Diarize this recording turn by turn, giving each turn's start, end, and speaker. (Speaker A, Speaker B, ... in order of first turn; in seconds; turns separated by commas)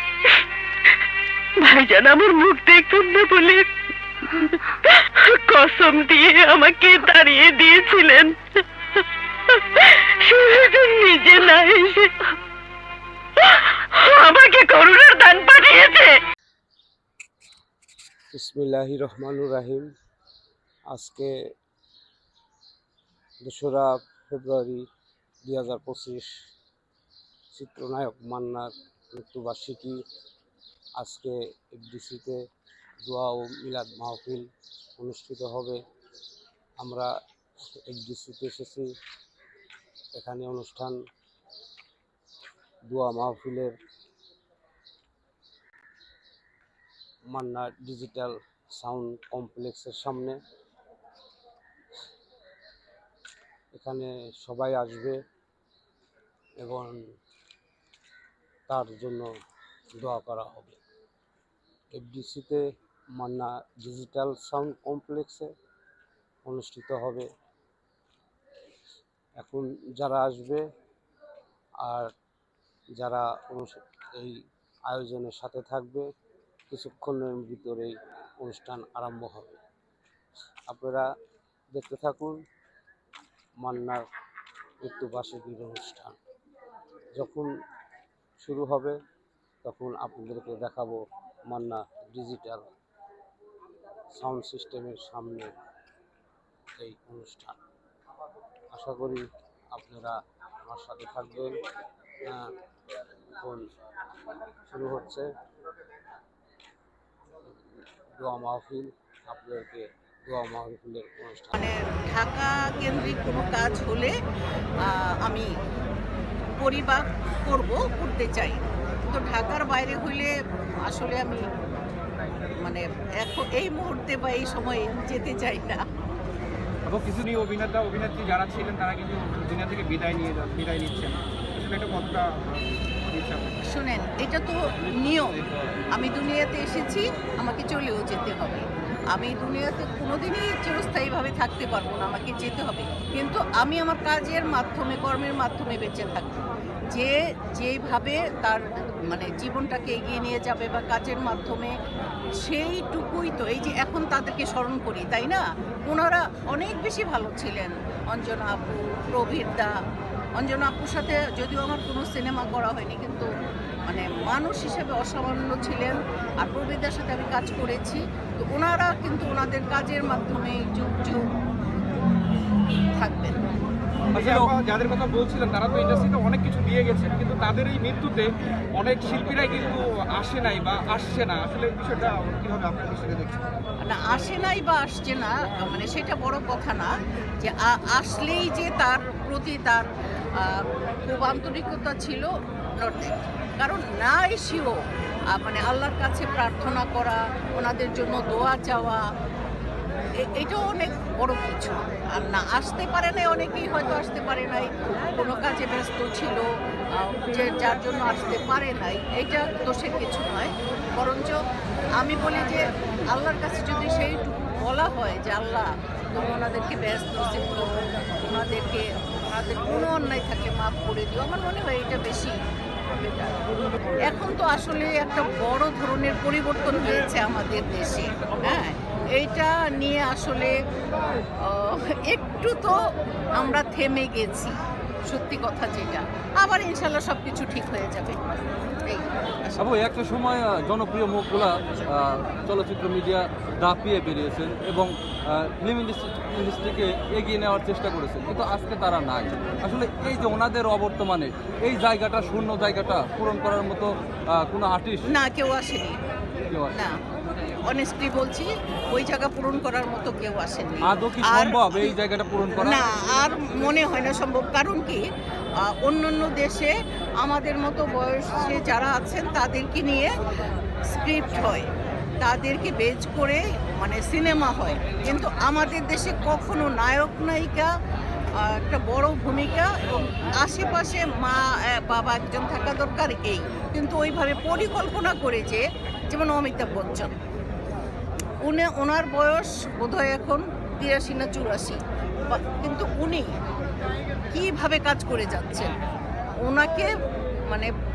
Speaker A: 1.6-3.7, Speaker A: 4.3-12.3, Speaker A: 13.4-16.2, Speaker B: 18.3-19.9, Speaker B: 20.9-21.4, Speaker B: 23.4-24.8, Speaker B: 25.5-26.3, Speaker B: 27.5-30.0, Speaker B: 31.0-32.4, Speaker B: 33.0-35.8, Speaker B: 36.8-37.1, Speaker B: 37.9-38.9, Speaker B: 40.1-41.0, Speaker B: 42.9-43.7, Speaker B: 47.3-50.4, Speaker B: 53.7-55.2, Speaker B: 56.6-57.0, Speaker B: 58.7-59.3, Speaker B: 60.0-60.8, Speaker B: 62.0-62.6, Speaker B: 63.2-65.5, Speaker B: 66.5-67.3, Speaker B: 69.4-70.6, Speaker B: 71.8-72.1, Speaker B: 73.0-74.4, Speaker B: 74.9-76.1, Speaker B: 76.7-79.6, Speaker B: 80.7-81.1, Speaker B: 81.7-82.4, Speaker B: 83.6-84.0, Speaker B: 84.8-86.2, Speaker B: 87.2-87.5, Speaker B: 88.4-89.0, Speaker B: 89.6-92.7, Speaker B: 94.2-95.5, Speaker B: 96.8-97.6, Speaker B: 98.7-101.6, Speaker B: 102.3-102.5, Speaker B: 103.4-103.6, Speaker B: 104.7-105.3, Speaker B: 108.2-111.7, Speaker C: 111.5-114.2, Speaker C: 114.8-115.5, Speaker C: 116.6-120.3, Speaker C: 120.8-121.4, Speaker C: 122.6-125.8, Speaker D: 126.9-133.6, Speaker C: 133.7-135.4, Speaker C: 135.9-151.8, Speaker C: 152.4-159.7, Speaker C: 160.4-163.3, Speaker C: 163.9-171.2, Speaker C: 173.0-173.4, Speaker D: 174.1-183.5, Speaker E: 174.1-174.5, Speaker C: 183.8-189.9, Speaker C: 190.4-192.3, Speaker C: 192.8-199.0, Speaker C: 200.2-211.4, Speaker C: 212.0-222.4, Speaker C: 222.9-223.4, Speaker C: 224.1-230.6, Speaker C: 231.4-232.8, Speaker C: 233.3-234.6, Speaker C: 235.1-238.2, Speaker C: 238.8-239.7, Speaker E: 239.6-255.1, Speaker C: 255.1-256.0, Speaker C: 257.7-261.9, Speaker E: 260.8-262.8, Speaker C: 262.6-265.0, Speaker C: 265.6-270.1, Speaker C: 270.9-271.7, Speaker C: 272.2-277.7, Speaker C: 278.4-279.7, Speaker C: 280.4-287.1, Speaker C: 288.4-293.3, Speaker C: 294.3-295.7, Speaker C: 296.4-296.9